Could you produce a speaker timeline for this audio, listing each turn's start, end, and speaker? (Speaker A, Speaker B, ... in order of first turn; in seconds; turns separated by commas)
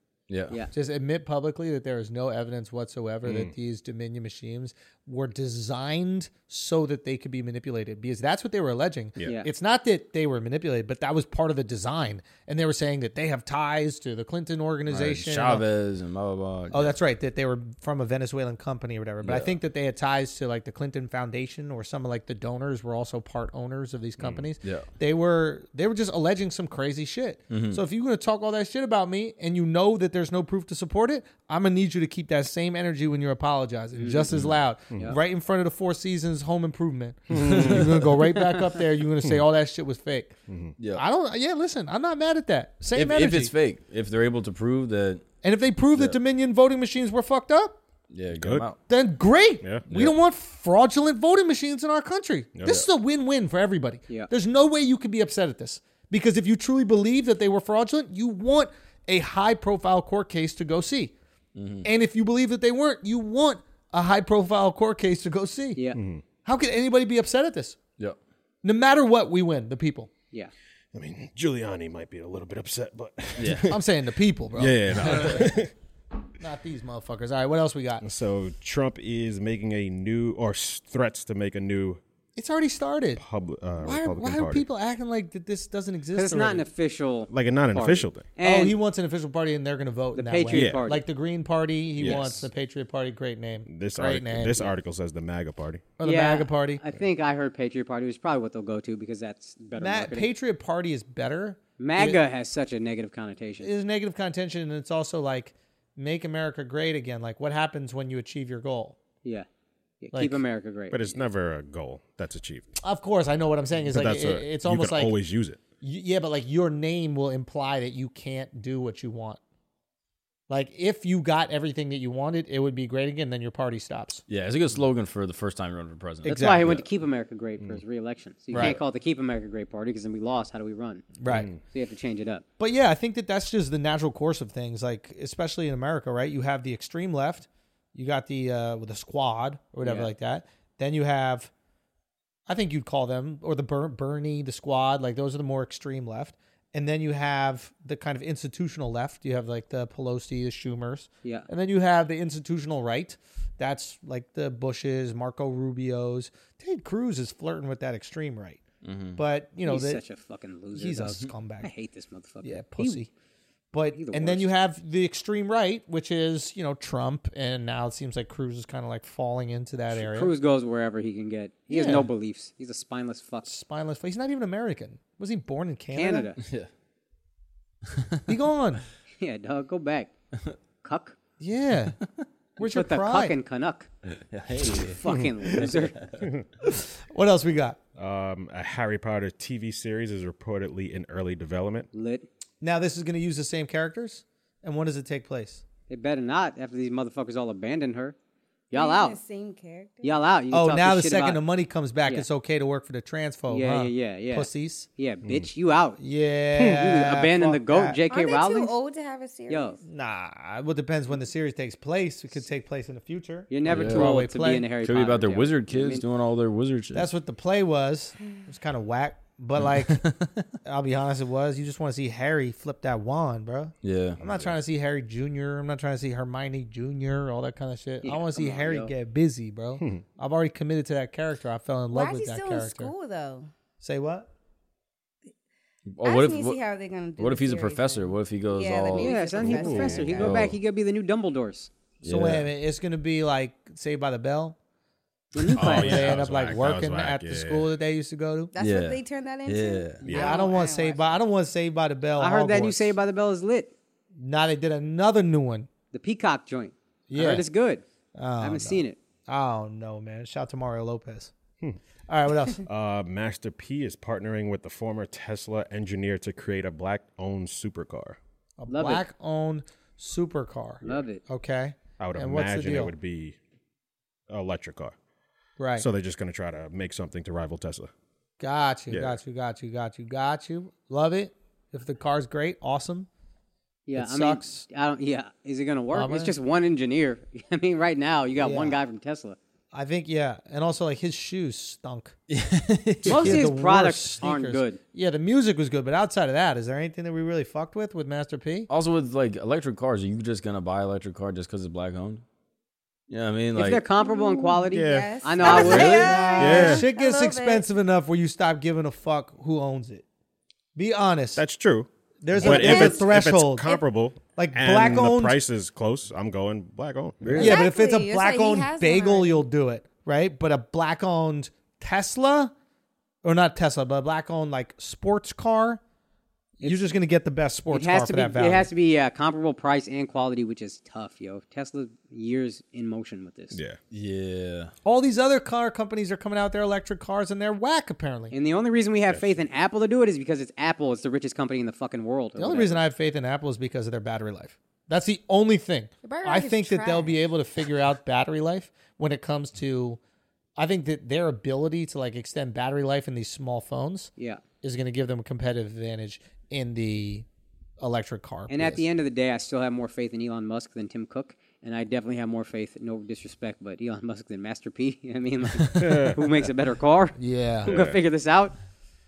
Speaker A: 0.3-0.6, Speaker B: 0.7-15.6, Speaker C: 3.2-3.5, Speaker D: 9.2-9.5, Speaker A: 14.9-16.9, Speaker B: 16.7-40.4, Speaker A: 19.2-19.5, Speaker A: 27.5-27.8, Speaker D: 34.0-34.3, Speaker C: 37.3-38.1, Speaker A: 37.4-37.9, Speaker C: 40.5-40.7, Speaker A: 40.8-41.0, Speaker B: 40.9-43.5, Speaker A: 42.9-45.2, Speaker B: 45.4-47.8, Speaker A: 48.1-48.8, Speaker C: 48.3-48.6, Speaker B: 48.9-61.1, Speaker C: 49.6-49.9, Speaker A: 49.9-50.1, Speaker C: 52.5-52.8, Speaker A: 61.5-61.9, Speaker B: 61.8-65.8, Speaker C: 65.9-66.2, Speaker B: 66.4-67.8, Speaker B: 68.6-70.1, Speaker C: 70.9-73.8, Speaker A: 73.4-73.7, Speaker B: 73.7-75.5, Speaker C: 74.5-75.7, Speaker A: 75.0-75.4, Speaker B: 76.4-78.0, Speaker C: 78.0-82.0, Speaker B: 82.3-83.2, Speaker C: 83.2-84.6, Speaker B: 83.8-86.6, Speaker D: 86.1-88.7, Speaker C: 87.3-88.2, Speaker B: 88.4-94.7, Speaker D: 90.1-91.0, Speaker C: 90.5-90.8, Speaker C: 92.0-92.5, Speaker C: 93.7-95.9, Speaker B: 96.0-96.8, Speaker D: 96.0-100.3, Speaker B: 99.8-102.2, Speaker D: 101.8-103.7, Speaker B: 103.6-109.0, Speaker D: 110.0-111.2, Speaker B: 110.1-110.4, Speaker C: 110.9-112.8, Speaker B: 112.8-115.1, Speaker C: 113.8-115.6, Speaker B: 115.8-119.4, Speaker B: 120.5-124.2, Speaker A: 124.3-126.7, Speaker B: 126.2-126.8, Speaker D: 126.2-132.4, Speaker B: 128.5-128.8, Speaker B: 131.2-131.5, Speaker C: 131.3-131.6, Speaker B: 132.6-141.5, Speaker D: 139.8-140.1, Speaker B: 142.5-158.6, Speaker A: 158.8-159.2, Speaker B: 159.2-160.0, Speaker D: 159.6-163.0, Speaker B: 160.7-161.7, Speaker B: 162.4-163.1, Speaker B: 163.7-170.3, Speaker D: 163.9-164.5, Speaker D: 169.9-173.5, Speaker B: 171.7-172.1, Speaker B: 173.4-176.3, Speaker D: 175.9-176.4, Speaker A: 176.4-176.7, Speaker B: 178.3-178.8, Speaker D: 179.2-180.1, Speaker D: 180.8-181.2, Speaker B: 181.4-182.0, Speaker B: 182.6-183.3, Speaker D: 182.6-183.9, Speaker A: 184.3-185.0, Speaker D: 184.6-186.0, Speaker A: 185.6-186.2, Speaker C: 186.2-186.5, Speaker B: 186.6-187.8, Speaker C: 187.9-191.9, Speaker D: 191.9-192.3, Speaker B: 192.6-195.6, Speaker D: 195.9-198.1, Speaker D: 198.7-199.2, Speaker E: 198.7-200.2, Speaker D: 200.0-201.4, Speaker B: 200.5-204.9, Speaker D: 203.5-206.0, Speaker B: 206.0-208.0, Speaker D: 206.6-208.7, Speaker E: 208.0-209.8, Speaker D: 209.5-209.8, Speaker B: 209.8-214.7, Speaker D: 213.5-216.0, Speaker A: 213.7-214.1, Speaker A: 214.8-217.1, Speaker B: 216.9-220.1, Speaker A: 219.7-220.4, Speaker B: 220.6-232.9, Speaker A: 223.8-224.2, Speaker C: 224.2-224.5, Speaker D: 228.0-228.9, Speaker E: 231.9-233.5, Speaker B: 233.8-234.3, Speaker A: 235.9-236.6, Speaker E: 236.0-240.4, Speaker A: 237.2-239.3, Speaker D: 239.0-241.7, Speaker C: 239.4-240.2, Speaker A: 240.1-240.6, Speaker B: 242.0-244.6, Speaker A: 242.0-242.5, Speaker D: 245.3-246.1, Speaker B: 245.4-248.5, Speaker C: 245.6-247.7, Speaker E: 248.5-251.2, Speaker A: 248.6-250.0, Speaker C: 250.0-250.4, Speaker B: 250.1-252.9, Speaker D: 252.2-253.7, Speaker B: 254.2-255.7, Speaker D: 255.9-257.8, Speaker B: 257.1-257.4, Speaker B: 258.1-261.3, Speaker D: 258.4-259.0, Speaker B: 262.1-262.6, Speaker C: 262.6-268.2, Speaker B: 268.6-272.9, Speaker D: 268.7-269.0, Speaker D: 270.8-271.2, Speaker C: 272.0-273.4, Speaker C: 274.3-274.9, Speaker B: 275.6-275.9, Speaker C: 275.8-277.9, Speaker B: 278.4-283.1, Speaker C: 278.9-279.2, Speaker D: 283.9-289.4, Speaker B: 283.9-284.7, Speaker B: 285.9-286.3, Speaker B: 288.4-288.8, Speaker B: 289.7-292.1, Speaker A: 292.3-293.4, Speaker B: 293.0-298.7, Speaker D: 293.1-294.8, Speaker A: 298.7-302.2, Speaker A: 303.1-303.8, Speaker D: 303.5-306.3, Speaker E: 303.9-307.6, Speaker C: 304.7-306.9, Speaker A: 305.4-306.4, Speaker B: 305.8-310.0, Speaker B: 310.7-311.4, Speaker C: 311.4-317.5, Speaker B: 312.2-313.8, Speaker E: 312.4-313.2, Speaker B: 314.3-315.4, Speaker A: 317.2-317.5, Speaker B: 317.3-322.5, Speaker E: 317.4-319.4, Speaker B: 323.2-325.8, Speaker D: 326.6-326.9, Speaker B: 326.6-328.7, Speaker D: 327.7-333.6, Speaker A: 333.9-334.7, Speaker B: 334.8-338.3, Speaker D: 338.3-342.8, Speaker B: 342.4-350.0, Speaker E: 346.0-347.2, Speaker B: 350.6-354.1, Speaker B: 354.6-357.3, Speaker B: 357.8-358.8, Speaker D: 358.5-368.5, Speaker C: 365.8-366.2, Speaker B: 367.2-367.7, Speaker C: 367.6-368.0